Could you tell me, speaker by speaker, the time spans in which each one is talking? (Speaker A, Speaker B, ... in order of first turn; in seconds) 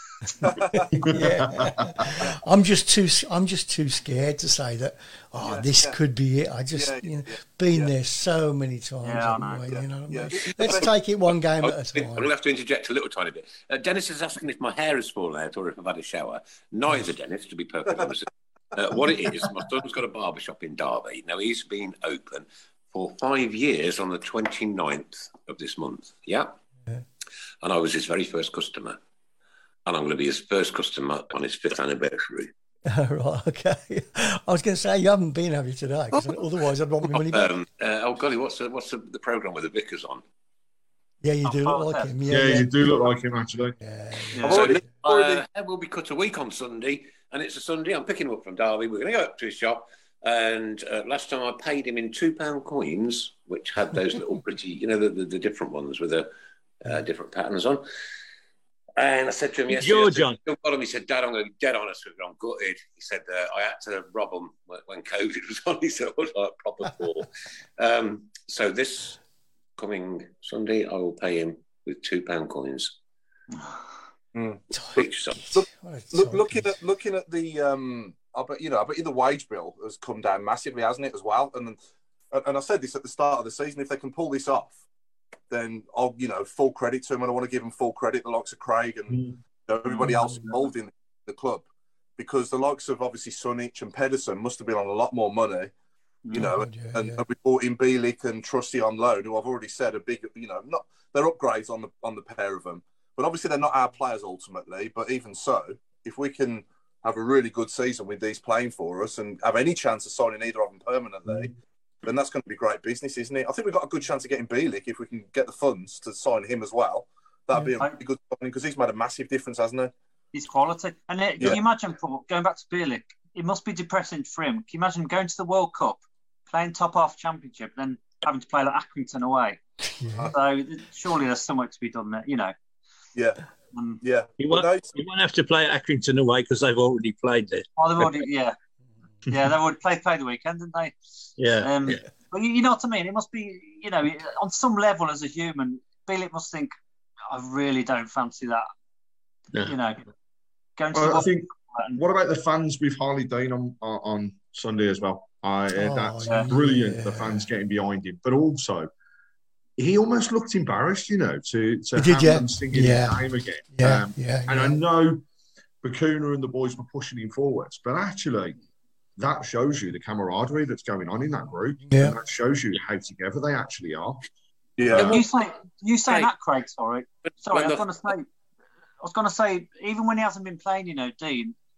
Speaker A: 0.4-1.0, 5.4-6.0, 6.7-7.9, 9.7-10.9, 44.4-45.4, 74.3-81.8, 82.3-84.8, 85.5-91.7, 92.2-95.7, 96.3-111.5, 112.0-119.9, 133.1-133.4, 134.0-134.9, 174.8-175.2
Speaker B: 0.9-2.1, 42.3-43.8, 150.9-158.9, 159.8-165.2, 165.8-168.6, 169.2-174.2
Speaker C: 1.1-12.3, 32.9-37.5, 41.2-43.0, 43.8-44.4, 74.7-76.8, 90.0-90.5, 96.3-97.2, 130.0-130.3, 155.7-157.4, 161.9-164.8, 171.9-172.2
Speaker D: 9.0-9.7, 41.4-42.1, 44.3-44.6, 73.5-73.8, 96.2-96.5, 120.3-129.6, 130.3-132.5, 133.7-134.0, 137.8-138.6, 139.3-140.9, 141.6-146.7, 147.3-148.7, 149.6-150.0, 150.8-152.0, 156.2-156.5, 175.0-178.3, 179.0-181.5
Speaker E: 11.6-26.5, 27.6-29.0, 29.9-32.5, 37.1-40.2, 44.5-56.3, 56.8-57.8, 59.0-69.2, 69.8-73.0, 74.9-75.5, 174.9-175.2, 177.5-177.8
Speaker F: 59.7-60.4, 134.4-138.2, 141.4-142.0